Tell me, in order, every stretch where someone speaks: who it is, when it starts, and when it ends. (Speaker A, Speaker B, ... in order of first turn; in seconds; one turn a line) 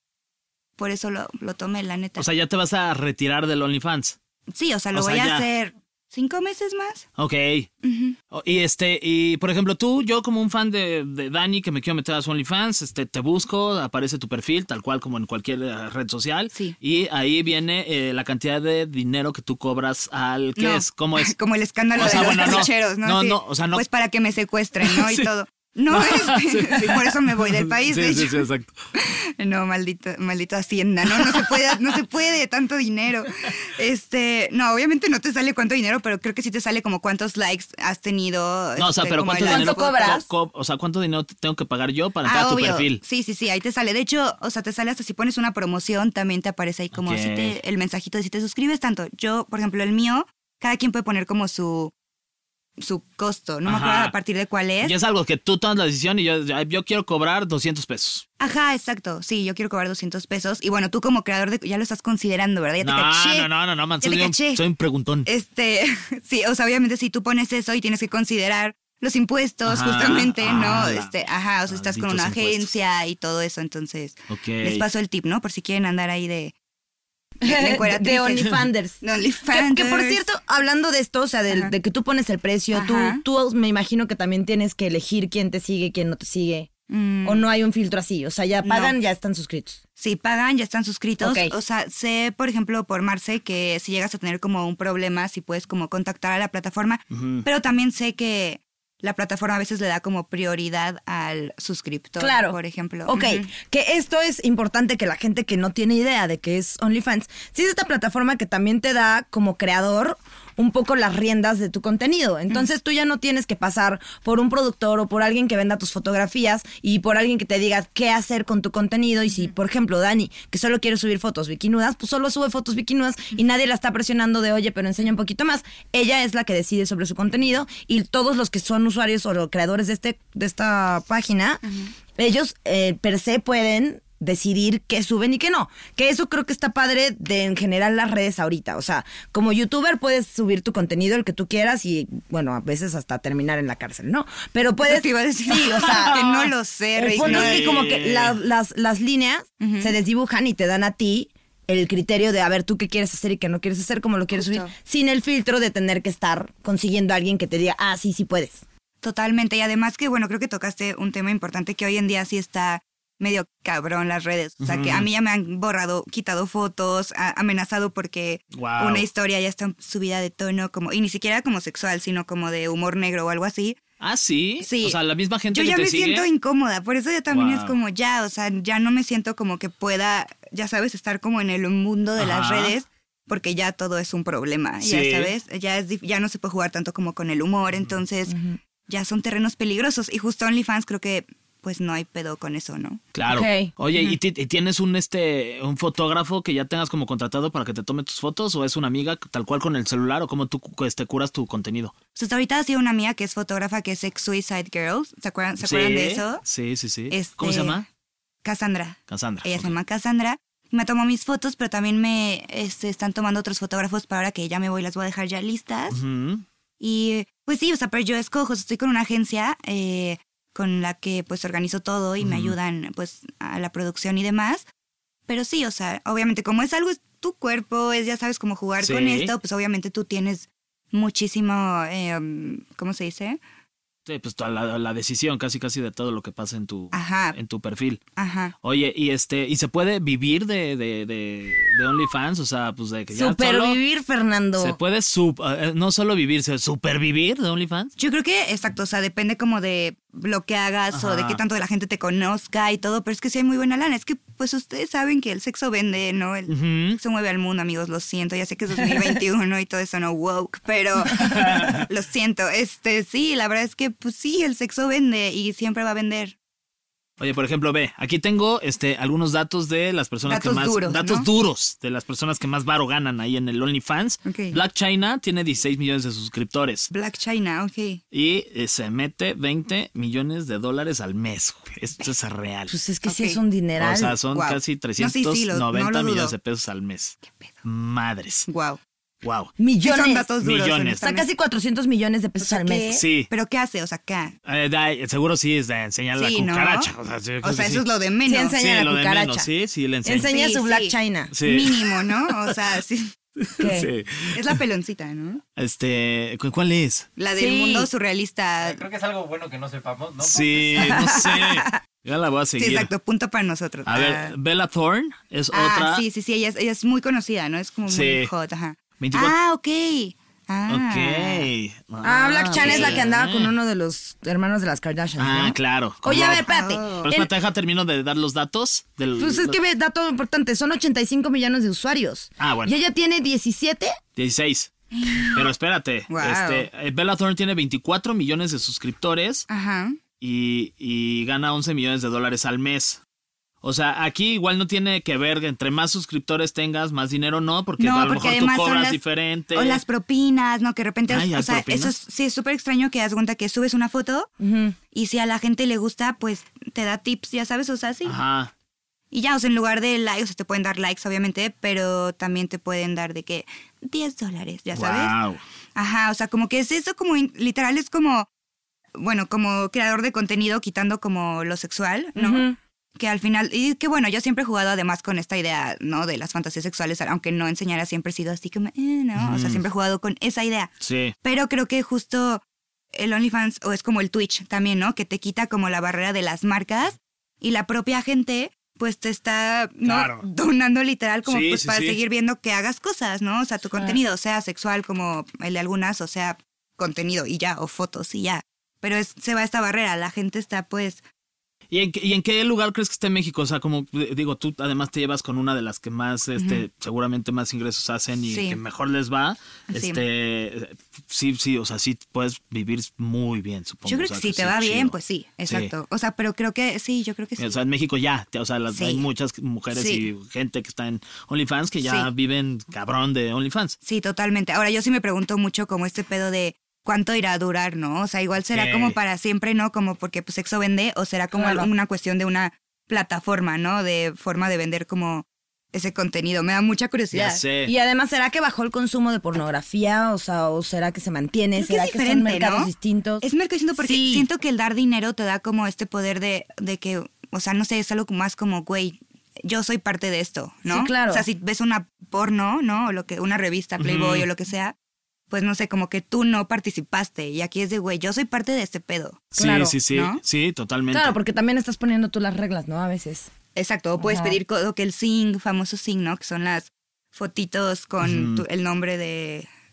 Speaker A: 0.8-2.2
Speaker B: 2.2-4.2
Speaker A: 4.5-7.0
Speaker B: 4.9-5.5
Speaker B: 7.2-7.7
Speaker A: 7.8-8.1
Speaker B: 8.3-21.4
Speaker A: 20.6-28.4
Speaker B: 22.0-23.8
Speaker B: 24.8-25.3
Speaker B: 25.9-28.7
Speaker A: 29.0-40.2
Speaker B: 38.8-43.0
Speaker C: 39.5-40.2
Speaker A: 42.2-51.9
Speaker B: 46.9-47.6
Speaker A: 52.8-55.0
Speaker B: 53.6-54.1
Speaker B: 54.8-58.2
Speaker A: 58.4-63.5
Speaker B: 62.8-65.3
Speaker A: 64.0-64.6
Speaker A: 65.2-76.5
Speaker B: 69.6-71.1
Speaker B: 71.7-72.7
Speaker B: 74.3-74.8
Speaker C: 77.4-86.7
Speaker A: 77.5-78.5
Speaker A: 79.0-80.2
Speaker A: 82.7-83.2
Speaker A: 86.9-87.5
Speaker C: 87.2-89.8
Speaker A: 88.6-89.0
Speaker A: 90.0-103.5
Speaker C: 91.2-91.5
Speaker B: 97.1-97.5
Speaker C: 102.2-131.6
Speaker C: 132.2-146.2
Speaker A: 144.8-147.8
Speaker C: 147.0-158.6
Speaker B: 147.2-148.4
Speaker A: 149.6-149.9
Speaker A: 154.4-154.7
Speaker A: 159.0-173.8
Speaker B: 164.6-165.1
Speaker B: 168.5-169.0
Speaker B: 174.0-176.3
Speaker A: 174.6-175.0
Speaker A: 175.5-188.3
Speaker B: 177.3-177.8
Speaker B: 182.2-182.7
Speaker B: 184.8-185.3
Speaker C: 188.3-188.6
Speaker A: 188.9-193.0
Speaker B: 193.1-201.9
Speaker C: 193.3-193.7
Speaker A: 202.2-206.4
Speaker B: 205.6-207.8
Speaker A: 207.1-207.8
Speaker A: 208.4-216.0
Speaker B: 209.1-209.7
Speaker B: 215.9-216.4
Speaker A: 216.8-224.7
Speaker B: 222.2-222.5
Speaker A: 225.3-233.4
Speaker B: 228.8-229.3
Speaker B: 234.1-238.0
Speaker A: 236.9-237.3
Speaker A: 238.2-238.5
Speaker B: 238.6-243.8
Speaker C: 243.1-244.8
Speaker B: 244.6-247.9
Speaker A: 248.0-266.4
Speaker B: 250.9-251.4
Speaker B: 256.5-257.0
Speaker C: 258.8-259.1
Speaker B: 261.1-261.9
Speaker B: 267.2-276.9
Speaker A: 270.3-271.3
Speaker A: 274.2-274.6
Speaker A: 276.9-278.0
Speaker B: 278.1-282.7
Speaker C: 282.7-284.1
Speaker A: 283.1-283.4
Speaker B: 283.8-288.5
Speaker A: 284.3-286.4
Speaker A: 288.5-288.8
Speaker B: 289.2-289.5
Speaker C: 289.6-290.3
Speaker A: 289.8-291.3
Speaker B: 290.4-291.0
Speaker C: 291.0-293.0
Speaker A: 292.4-294.4
Speaker B: 292.9-293.3
Speaker B: 294.5-297.8
Speaker A: 296.1-296.9
Speaker A: 297.4-298.6
Speaker C: 298.3-299.5
Speaker B: 298.6-300.3
Speaker C: 300.0-301.3
Speaker A: 300.3-303.1
Speaker B: 301.3-302.1
Speaker B: 303.5-304.4
Speaker C: 303.6-303.9
Speaker A: 304.3-305.4
Speaker B: 305.6-307.1
Speaker A: 307.2-308.8
Speaker C: 307.4-307.9
Speaker D: 308.6-310.9
Speaker B: 310.2-312.9
Speaker C: 310.8-311.6
Speaker A: 312.6-314.3
Speaker B: 313.9-316.0
Speaker A: 315.5-321.5
Speaker B: 317.9-318.3
Speaker B: 319.0-319.3
Speaker B: 320.7-323.5
Speaker C: 322.0-327.3
Speaker A: 322.6-323.0
Speaker B: 325.2-326.5
Speaker A: 326.5-327.0
Speaker B: 327.0-329.6
Speaker C: 329.2-334.0
Speaker B: 332.4-332.7
Speaker B: 334.2-334.7
Speaker A: 334.9-335.4
Speaker B: 335.3-339.5
Speaker A: 336.1-336.7
Speaker A: 339.5-340.0
Speaker B: 340.2-343.0
Speaker B: 343.6-349.8
Speaker A: 347.8-349.0
Speaker A: 349.5-354.3
Speaker B: 351.1-351.9
Speaker C: 354.4-354.8
Speaker A: 354.9-358.1
Speaker B: 358.0-358.5
Speaker A: 359.1-365.1
Speaker B: 364.8-365.4
Speaker A: 365.8-368.3
Speaker A: 369.0-372.4
Speaker C: 372.2-372.6
Speaker A: 373.0-401.0
Speaker B: 379.2-379.6
Speaker B: 380.8-381.1
Speaker B: 389.8-390.2
Speaker B: 391.2-392.0
Speaker B: 401.7-415.0
Speaker A: 406.4-406.6
Speaker A: 408.3-408.6
Speaker A: 409.7-410.0
Speaker A: 413.9-417.6
Speaker B: 417.4-423.8
Speaker A: 418.7-419.0
Speaker A: 419.7-420.1
Speaker A: 423.8-437.4
Speaker B: 428.5-429.0
Speaker C: 431.3-431.7
Speaker B: 437.1-437.7
Speaker C: 437.6-443.2
Speaker A: 441.6-442.7
Speaker A: 443.2-454.8
Speaker C: 443.8-444.3
Speaker C: 450.7-451.2
Speaker B: 453.8-454.3
Speaker A: 455.3-459.2
Speaker B: 459.3-461.2
Speaker C: 459.4-459.8
Speaker A: 459.9-460.2
Speaker C: 460.9-463.3
Speaker A: 463.5-469.5
Speaker C: 464.0-464.4
Speaker B: 468.0-468.4